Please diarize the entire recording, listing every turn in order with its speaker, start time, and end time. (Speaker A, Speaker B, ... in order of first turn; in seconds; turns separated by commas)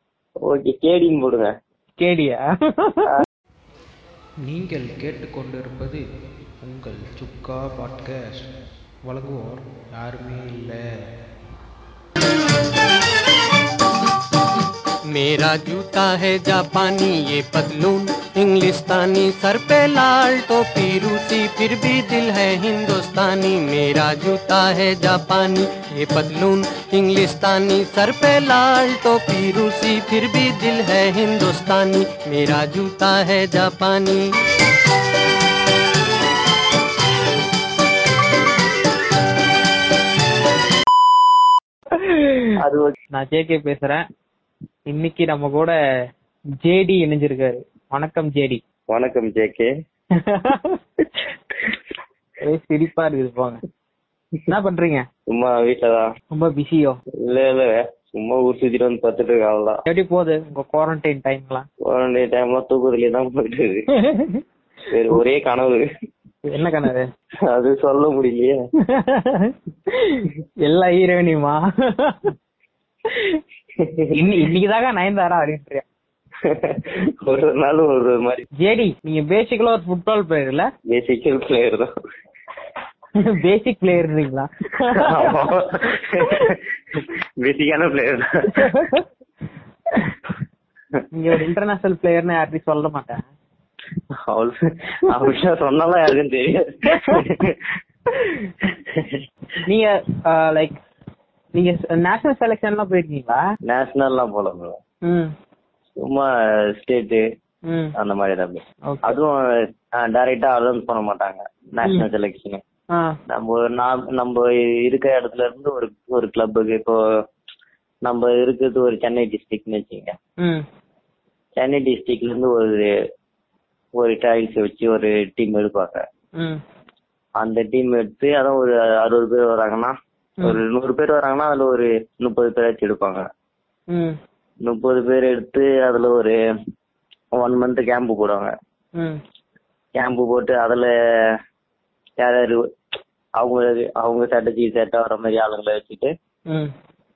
Speaker A: 0.5-1.5, Speaker B: 2.0-3.1, Speaker C: 4.4-6.0, Speaker C: 6.6-10.9, Speaker D: 15.1-34.3, Speaker B: 41.9-42.5, Speaker A: 42.6-43.0, Speaker B: 43.1-44.0, Speaker B: 44.9-45.8, Speaker B: 46.6-48.6, Speaker A: 48.9-49.7, Speaker B: 50.2-50.8, Speaker B: 52.4-53.6, Speaker B: 54.5-55.1, Speaker A: 55.3-56.1, Speaker B: 56.3-57.0, Speaker A: 57.2-59.8, Speaker B: 59.9-61.7, Speaker A: 61.8-63.9, Speaker B: 64.0-64.4, Speaker A: 64.9-65.9, Speaker B: 66.4-67.1, Speaker A: 67.5-68.7, Speaker B: 68.9-72.3, Speaker B: 73.1-73.4, Speaker A: 73.8-74.1, Speaker B: 74.1-75.8, Speaker A: 76.4-78.5, Speaker B: 78.6-80.7, Speaker A: 80.9-81.9, Speaker B: 83.2-85.5, Speaker A: 84.9-88.8, Speaker B: 86.2-86.5, Speaker B: 88.5-89.0, Speaker B: 91.1-93.2, Speaker A: 94.2-97.8, Speaker B: 96.9-97.2, Speaker A: 98.8-99.2, Speaker B: 99.6-100.8, Speaker B: 101.5-103.4, Speaker A: 103.6-104.8, Speaker B: 105.0-105.3, Speaker A: 106.0-107.2, Speaker B: 107.7-107.9, Speaker A: 108.0-112.6, Speaker B: 108.8-109.2, Speaker A: 113.3-117.0, Speaker A: 118.0-120.2, Speaker A: 121.6-122.9, Speaker A: 124.0-126.0, Speaker A: 127.4-133.3, Speaker B: 133.9-134.2, Speaker A: 134.6-136.4, Speaker A: 137.4-138.5, Speaker A: 140.0-141.4, Speaker A: 142.2-142.6, Speaker A: 143.4-146.1